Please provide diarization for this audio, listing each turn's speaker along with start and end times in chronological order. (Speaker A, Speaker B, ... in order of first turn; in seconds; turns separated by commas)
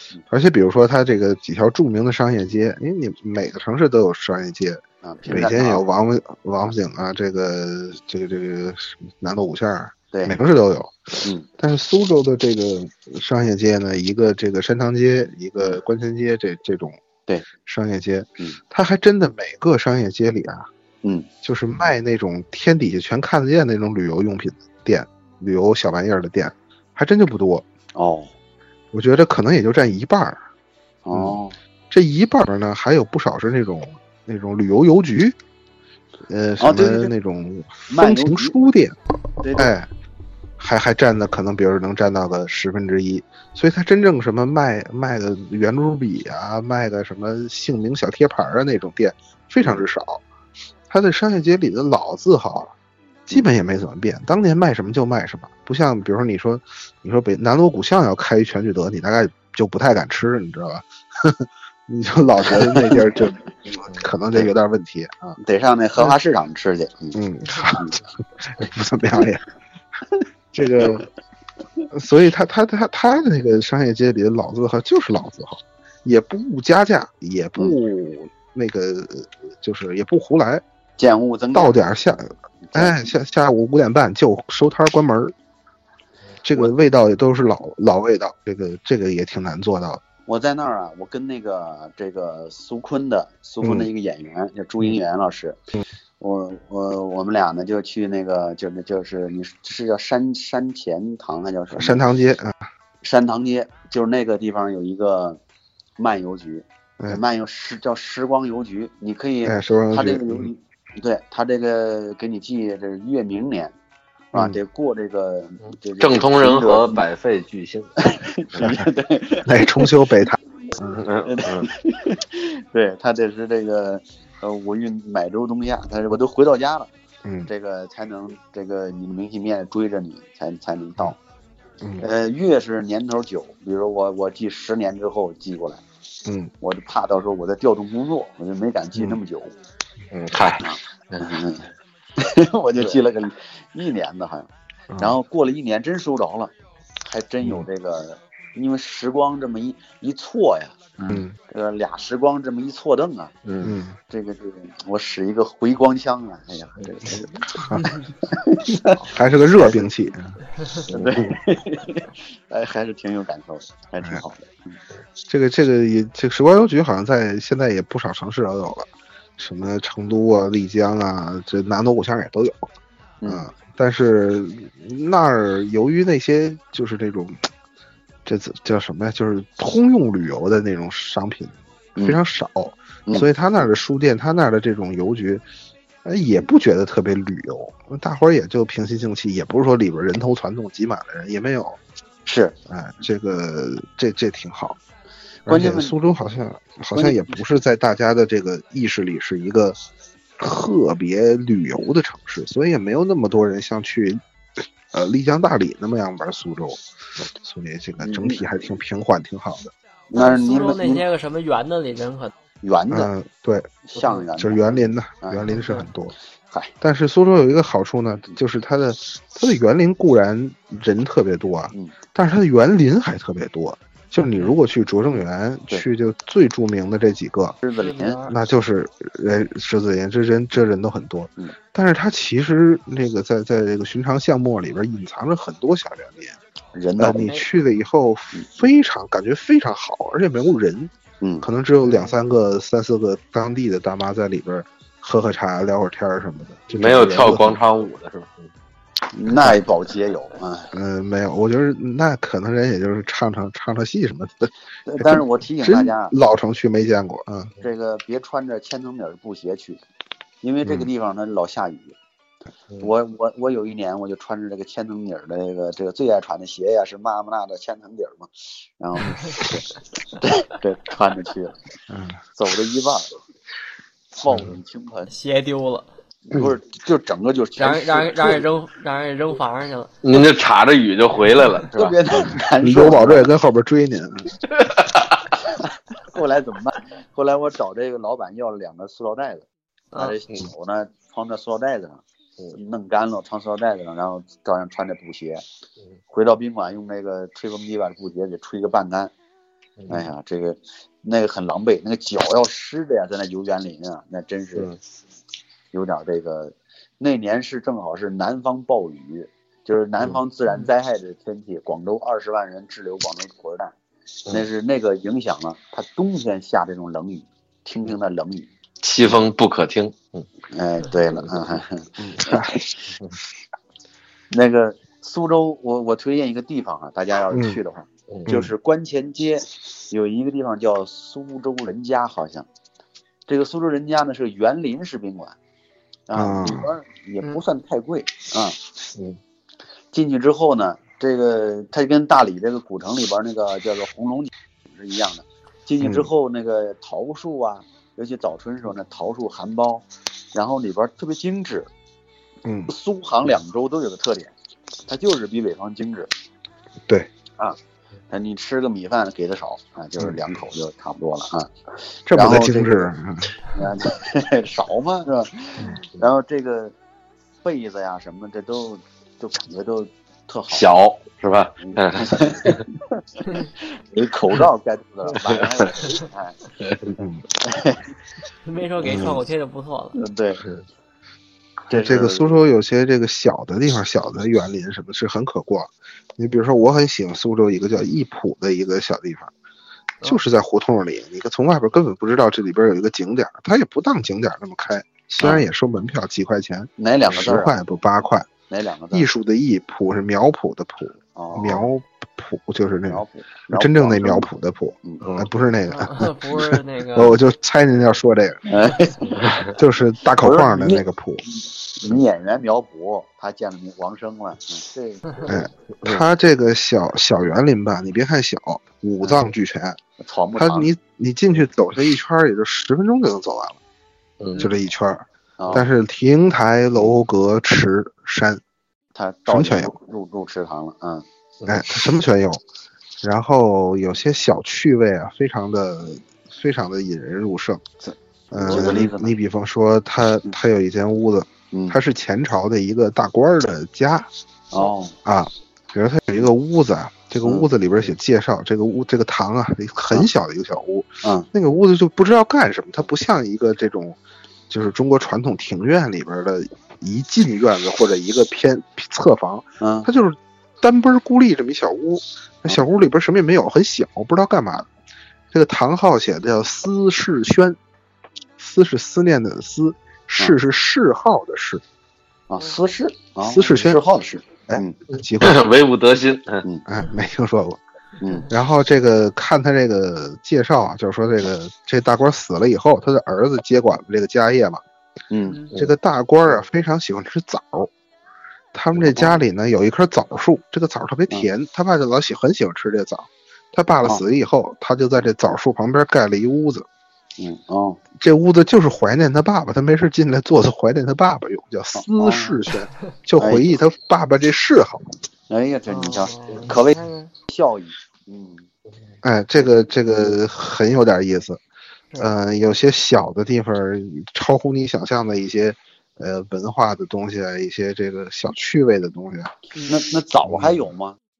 Speaker A: 0.3-17.0, Speaker B: 5.0-5.8, Speaker A: 17.6-20.7, Speaker B: 21.0-21.3, Speaker A: 21.4-27.6, Speaker B: 27.9-28.3, Speaker A: 28.9-30.4, Speaker B: 31.0-31.6, Speaker A: 31.1-31.4, Speaker A: 31.9-35.4, Speaker A: 36.3-39.0, Speaker B: 36.6-37.1, Speaker B: 37.9-38.6, Speaker B: 39.4-39.7, Speaker A: 39.5-39.9, Speaker A: 40.6-50.2, Speaker A: 50.9-52.7, Speaker A: 53.3-65.4, Speaker B: 62.5-63.1, Speaker B: 65.4-68.0, Speaker A: 67.1-69.4, Speaker A: 70.5-71.0, Speaker B: 70.8-71.0, Speaker A: 71.9-80.6, Speaker B: 81.0-81.8, Speaker A: 81.5-85.3, Speaker B: 82.6-83.0, Speaker A: 86.4-90.0, Speaker B: 90.3-95.6, Speaker A: 93.6-93.9, Speaker B: 96.2-102.0, Speaker A: 101.7-102.7, Speaker B: 103.0-105.4, Speaker B: 106.0-113.7, Speaker A: 109.5-110.5, Speaker B: 114.3-117.0, Speaker C: 115.7-118.0, Speaker B: 118.0-119.9, Speaker A: 119.4-121.0, Speaker C: 120.9-121.7, Speaker B: 121.2-126.9, Speaker A: 127.2-127.5, Speaker B: 127.5-131.2, Speaker B: 132.0-135.8, Speaker B: 136.6-139.6, Speaker C: 140.1-141.4, Speaker B: 140.6-146.5, Speaker A: 144.9-145.2, Speaker B: 147.0-153.3, Speaker A: 151.1-151.3, Speaker C: 153.4-153.8, Speaker A: 153.6-154.0, Speaker B: 154.1-157.3, Speaker A: 157.5-157.9, Speaker B: 158.2-159.1, Speaker A: 159.0-160.4, Speaker B: 159.6-159.8, Speaker B: 160.9-164.8, Speaker C: 160.9-161.3, Speaker A: 165.3-172.7, Speaker B: 173.2-173.5, Speaker A: 173.2-177.4, Speaker A: 178.2-185.4, Speaker A: 186.0-191.8, Speaker B: 192.2-192.6, Speaker A: 192.7-194.8, Speaker B: 195.4-195.9, Speaker A: 195.5-199.8, Speaker B: 196.9-197.4, Speaker A: 200.4-204.2, Speaker A: 204.9-206.8, Speaker A: 207.4-209.7, Speaker B: 208.0-208.4, Speaker B: 210.1-211.0, Speaker D: 210.1-212.3, Speaker B: 212.6-213.1, Speaker A: 212.9-213.8, Speaker B: 213.9-215.5, Speaker A: 214.3-216.1, Speaker D: 215.5-215.9, Speaker A: 216.8-227.6, Speaker B: 227.6-228.2, Speaker D: 227.8-228.3, Speaker A: 228.2-236.4, Speaker B: 236.7-237.3, Speaker A: 237.0-247.6, Speaker D: 237.2-237.4, Speaker B: 241.2-241.5, Speaker C: 246.7-248.5, Speaker B: 249.1-250.7, Speaker A: 249.3-249.6, Speaker A: 250.7-257.5, Speaker B: 254.8-256.1, Speaker B: 257.6-259.8, Speaker B: 260.4-261.9, Speaker B: 262.8-269.6, Speaker B: 270.2-271.6, Speaker A: 271.9-272.2, Speaker B: 272.3-273.1, Speaker B: 274.2-275.1, Speaker D: 275.1-275.9, Speaker B: 276.3-278.5, Speaker D: 277.6-280.0, Speaker C: 280.0-281.9, Speaker B: 281.7-283.3, Speaker A: 282.3-284.3, Speaker C: 284.5-285.2, Speaker B: 286.0-292.0, Speaker B: 292.5-295.4, Speaker B: 296.1-299.1, Speaker C: 299.8-300.1, Speaker B: 299.9-304.7, Speaker B: 305.7-313.7, Speaker B: 314.3-318.5, Speaker C: 318.8-320.3, Speaker B: 320.5-322.5, Speaker A: 322.0-322.7, Speaker B: 324.3-332.5, Speaker A: 327.3-327.6, Speaker B: 333.3-335.4, Speaker B: 336.1-338.6, Speaker A: 336.1-336.7, Speaker B: 339.9-351.7, Speaker A: 345.8-346.1, Speaker A: 352.4-352.7, Speaker B: 352.7-354.3, Speaker B: 354.9-356.1, Speaker B: 358.1-361.5, Speaker A: 362.1-363.3, Speaker B: 362.1-362.9, Speaker B: 363.5-366.8, Speaker B: 367.4-370.6, Speaker C: 370.5-372.6, Speaker B: 371.6-376.4, Speaker C: 376.6-376.9, Speaker B: 377.4-377.9, Speaker D: 378.4-380.0, Speaker B: 378.8-379.2, Speaker A: 378.9-379.1, Speaker B: 379.9-380.4, Speaker B: 381.7-382.4, Speaker A: 381.7-389.3, Speaker A: 390.0-398.3, Speaker B: 396.8-397.5, Speaker B: 398.5-399.1, Speaker A: 398.9-408.5, Speaker B: 401.1-401.6, Speaker B: 402.9-404.3, Speaker C: 405.0-405.3, Speaker D: 405.7-407.2, Speaker B: 408.4-409.2, Speaker A: 409.5-411.2, Speaker B: 410.2-415.4, Speaker A: 415.3-419.8, Speaker B: 420.0-420.7, Speaker A: 420.3-423.6, Speaker C: 424.2-424.4, Speaker A: 424.4-428.4, Speaker B: 425.4-425.6, Speaker B: 428.9-431.0, Speaker A: 429.3-429.7, Speaker A: 431.4-432.4, Speaker A: 433.0-437.7, Speaker A: 438.3-444.1, Speaker B: 438.3-439.1, Speaker B: 441.5-441.8, Speaker B: 444.5-444.9, Speaker A: 445.0-454.0, Speaker B: 447.2-447.5, Speaker B: 451.0-451.3, Speaker A: 454.5-464.7, Speaker B: 459.6-459.9, Speaker A: 465.3-467.6, Speaker A: 468.4-471.6, Speaker B: 472.3-474.8, Speaker A: 473.2-473.8, Speaker A: 474.5-475.4, Speaker C: 475.2-476.4, Speaker A: 476.7-477.6, Speaker B: 478.0-478.3, Speaker A: 478.3-484.6, Speaker B: 485.1-485.4, Speaker A: 485.5-487.7, Speaker A: 488.5-496.6, Speaker B: 488.8-489.2, Speaker B: 497.2-497.8, Speaker A: 498.0-504.8, Speaker B: 501.7-502.4, Speaker B: 503.2-503.5, Speaker B: 505.3-508.5, Speaker D: 505.7-507.1, Speaker A: 509.0-511.4, Speaker A: 511.9-519.3, Speaker B: 519.6-521.0, Speaker A: 520.2-520.5